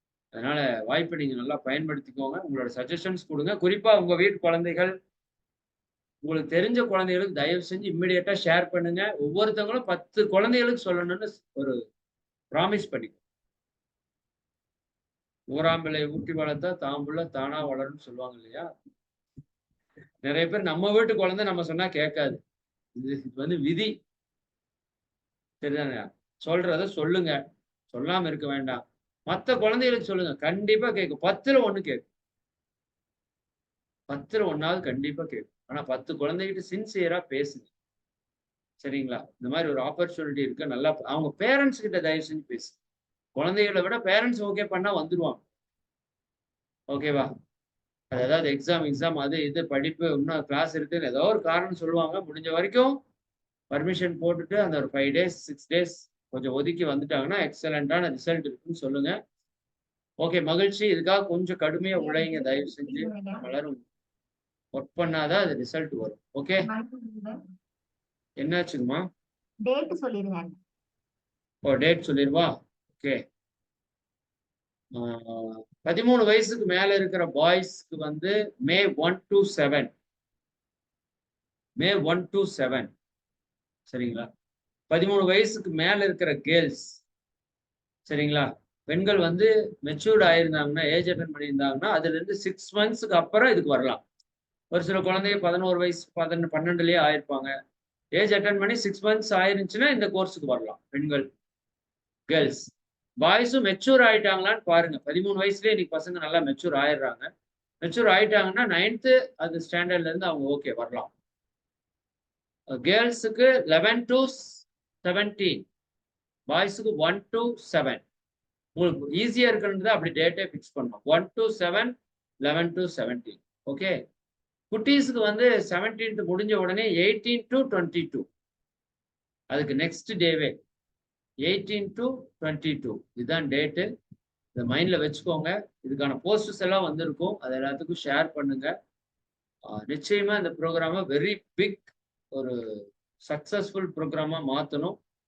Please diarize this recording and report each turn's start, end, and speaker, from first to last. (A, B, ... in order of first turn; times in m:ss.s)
0:00.4-0:04.9 A
0:06.2-0:11.8 A
0:12.5-0:13.2 A
0:15.5-0:18.7 A
0:20.2-0:22.4 A
0:23.0-0:23.9 A
0:25.6-0:27.4 A
0:27.9-0:32.1 A
0:34.1-0:37.7 A
0:38.8-0:42.8 A
0:43.4-0:45.4 A
0:46.9-0:47.3 A
0:48.1-0:53.0 A
0:53.7-0:59.2 A
1:00.2-1:03.8 A
1:02.0-1:03.5 B
1:04.8-1:06.7 A
1:06.6-1:07.4 B
1:08.4-1:09.0 A
1:09.6-1:10.6 B
1:11.6-1:13.2 A
1:14.9-1:19.9 A
1:21.8-1:22.9 A
1:23.9-1:24.3 A
1:24.9-1:27.0 A
1:28.1-1:34.0 A
1:34.7-1:37.5 A
1:38.2-1:41.3 A
1:42.3-1:47.3 A
1:47.8-1:51.1 A
1:52.7-1:55.7 A
1:56.5-1:58.0 A
1:58.8-2:04.0 A
2:04.7-2:08.3 A
2:09.5-2:10.6 A
2:11.5-2:13.9 A
2:14.6-2:18.7 A
2:19.8-2:22.6 A
2:23.3-2:25.0 A